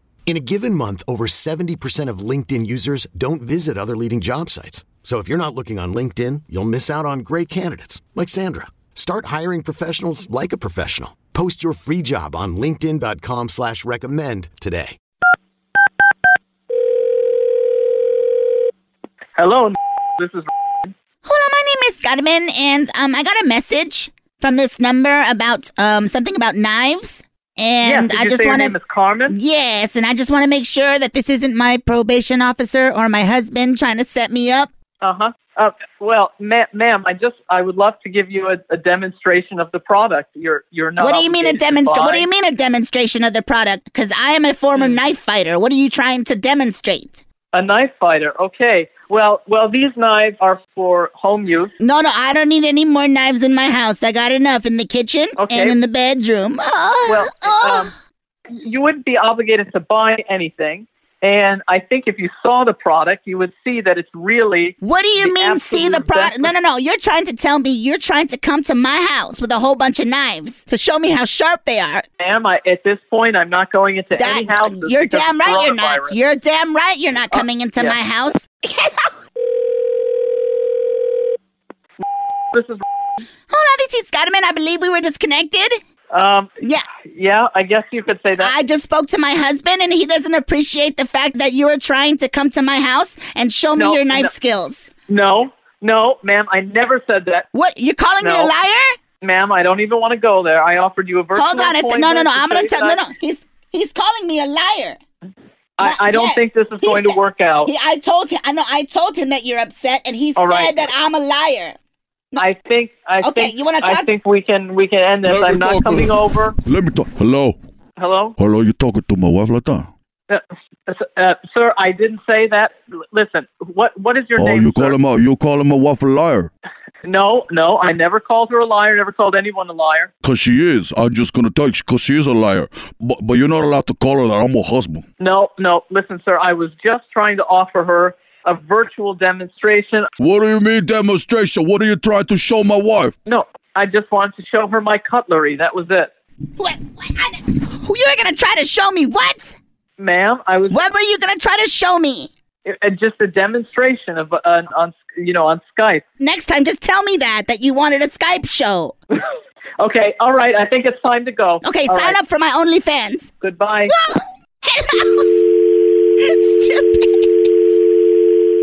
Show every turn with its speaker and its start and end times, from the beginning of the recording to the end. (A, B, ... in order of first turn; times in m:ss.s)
0:00.3-0:15.0 A
0:19.4-0:20.9 B
0:21.2-0:28.8 C
0:27.8-0:29.4 B
0:29.3-0:34.7 C
0:35.0-0:42.3 B
0:41.0-0:47.2 C
0:47.5-0:51.7 B
0:51.8-0:57.9 C
0:55.4-0:55.8 B
0:57.1-0:57.9 B
0:58.5-1:06.5 B
1:04.8-1:12.0 C
1:12.2-1:16.1 B
1:14.1-1:19.1 C
1:17.3-1:18.0 B
1:22.5-1:22.8 B
1:23.5-1:25.8 C
1:26.1-1:26.5 B
1:27.1-1:28.5 B
1:28.4-1:34.9 C
1:33.8-1:34.3 B
1:35.1-1:37.4 B
1:37.5-1:38.9 C
1:38.2-1:38.5 B
1:39.2-1:43.0 B
1:41.3-1:45.0 C
1:45.8-1:47.7 B
1:45.8-1:51.7 C
1:50.4-1:50.8 B
1:52.4-1:56.5 B
1:53.2-1:54.1 C
1:55.2-1:57.6 D
1:58.0-1:58.3 B
1:58.4-1:59.9 D
2:00.3-2:04.9 B
2:04.4-2:06.5 D
2:07.0-2:10.1 B
2:10.2-2:15.0 D
2:15.2-2:20.1 B
2:20.2-2:23.1 D
2:23.2-2:26.1 B
2:26.6-2:29.6 C
2:30.0-2:30.8 B
2:30.7-2:32.3 C
2:32.6-2:36.0 B
2:36.2-2:38.9 C
2:39.1-2:42.2 B
2:41.6-2:43.3 C
2:43.4-2:43.9 B
2:43.9-2:45.5 C
2:46.2-2:47.3 C